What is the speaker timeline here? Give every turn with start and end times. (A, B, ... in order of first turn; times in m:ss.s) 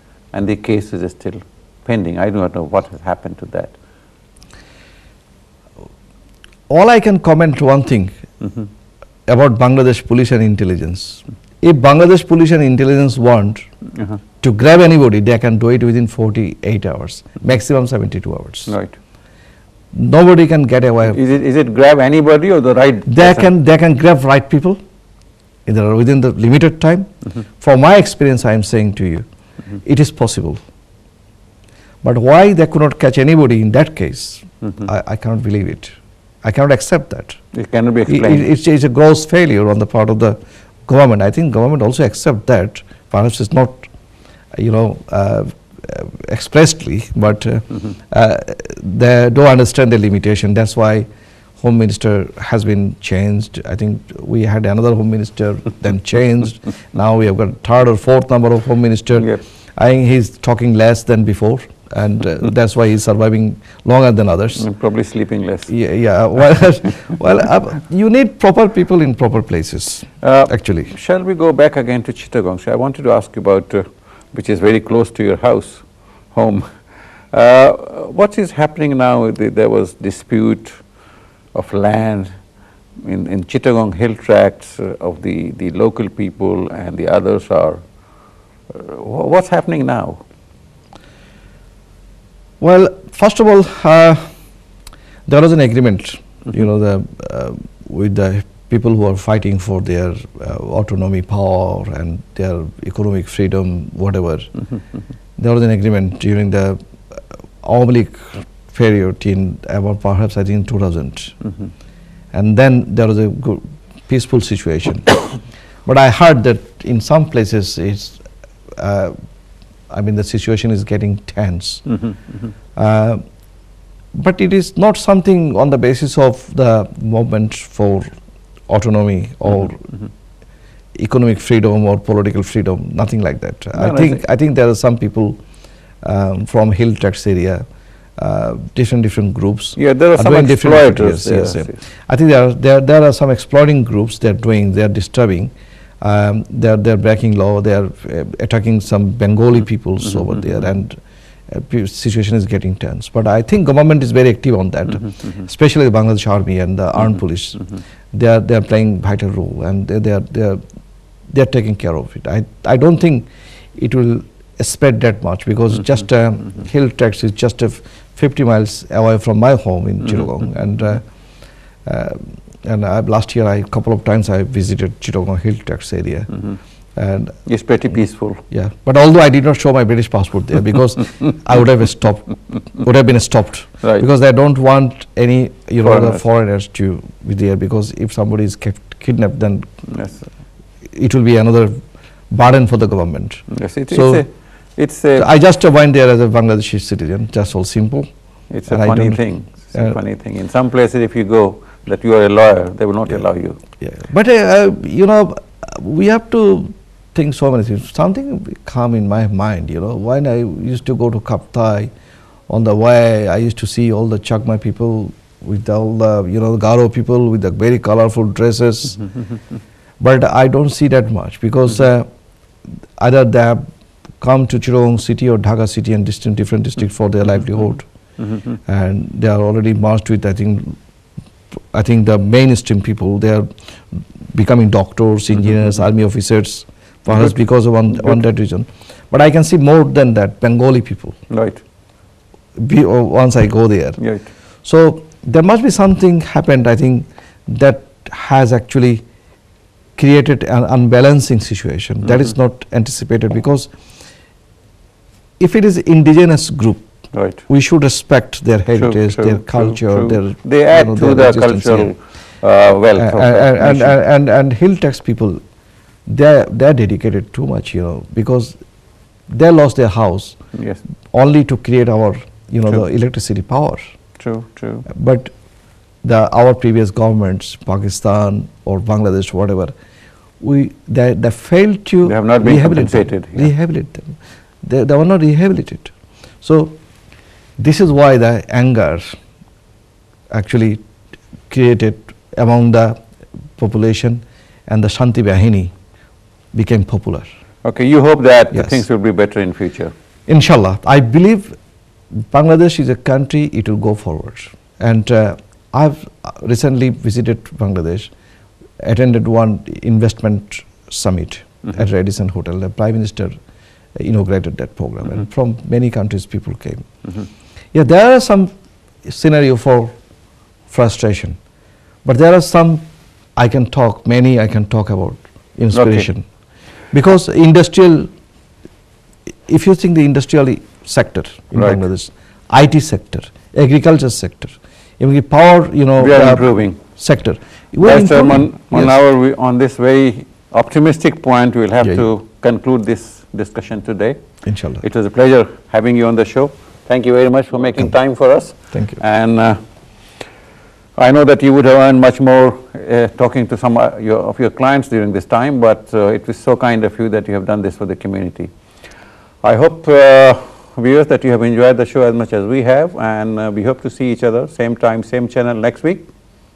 0:00.3-0:03.7 A
0:06.7-0:08.1 B
0:09.3-0:13.6 B
0:14.4-0:18.7 B
0:18.7-0:18.9 A
0:19.9-0:21.2 B
0:21.1-0:23.5 A
0:23.1-0:24.8 B
0:25.6-0:29.2 B
0:29.8-0:30.6 B
0:32.0-0:37.4 B
0:37.5-0:38.5 A
0:38.1-0:43.9 B
0:44.5-0:51.1 B
0:51.6-1:04.7 B
1:04.6-1:05.7 A
1:05.7-1:10.9 B
1:10.2-1:16.7 A
1:17.3-1:20.8 A
1:21.5-1:22.3 A
1:23.0-1:27.8 A
1:28.7-1:30.2 A
1:32.6-1:34.3 B
1:35.2-1:44.6 B
1:45.4-1:51.4 B
1:52.3-1:55.3 B
1:55.8-1:58.2 B
1:58.8-1:59.2 B
1:59.9-2:01.9 B
2:02.8-2:03.2 B
2:04.1-2:08.1 B
2:08.7-2:09.8 B
2:11.0-2:15.4 B
2:13.7-2:14.2 A
2:16.0-2:17.6 B
2:18.2-2:40.6 B
2:19.8-2:21.8 A
2:41.3-2:51.0 B
2:51.8-2:56.4 B
2:57.0-2:57.4 B
2:57.4-2:58.4 A
2:58.5-3:09.7 B
3:05.8-3:06.2 A
3:09.9-3:10.2 A
3:10.9-3:14.2 B
3:13.5-3:15.3 A
3:15.2-3:18.1 B
3:18.5-3:23.6 A
3:18.7-3:19.2 B
3:23.8-3:31.9 B
3:32.5-3:39.0 B
3:40.0-3:42.1 B
3:43.0-3:43.6 B
3:44.2-3:47.9 B
3:48.6-3:50.8 B
3:51.7-3:53.5 B
3:54.3-4:01.2 B
4:01.3-4:01.6 A
4:02.6-4:04.0 B
4:04.0-4:04.2 A
4:04.6-4:09.0 B
4:10.0-4:13.7 B
4:15.4-4:16.8 B
4:17.1-4:17.4 A
4:17.5-4:21.9 B
4:18.7-4:24.0 A
4:23.0-4:25.4 B
4:26.0-4:28.6 B
4:29.3-4:30.4 B
4:30.5-4:30.8 A
4:31.1-4:33.8 B
4:34.2-4:34.8 A
4:34.9-4:35.3 B
4:36.0-4:39.7 B
4:40.4-4:46.8 B
4:42.0-4:43.5 A
4:47.6-4:49.1 B
4:50.3-4:50.8 B
4:51.5-4:53.0 B
4:53.6-4:55.7 B
4:56.5-4:57.2 B
4:57.6-4:59.9 A
4:58.5-4:58.8 B
5:00.3-5:01.5 B
5:02.3-5:08.1 B
5:08.8-5:13.3 B
5:13.9-5:16.8 B
5:17.7-5:18.5 B
5:19.0-5:19.9 B
5:20.7-5:21.4 B
5:22.0-5:22.8 B
5:23.4-5:26.2 B
5:25.7-5:26.1 A
5:26.9-5:28.1 B
5:29.5-5:39.0 B
5:31.5-5:31.8 A
5:36.0-5:36.8 A
5:37.8-5:44.2 A
5:41.8-5:42.0 B
5:44.4-5:44.8 B
5:44.8-5:49.6 A
5:48.7-5:49.0 B
5:51.0-5:58.5 A
5:59.4-6:06.1 A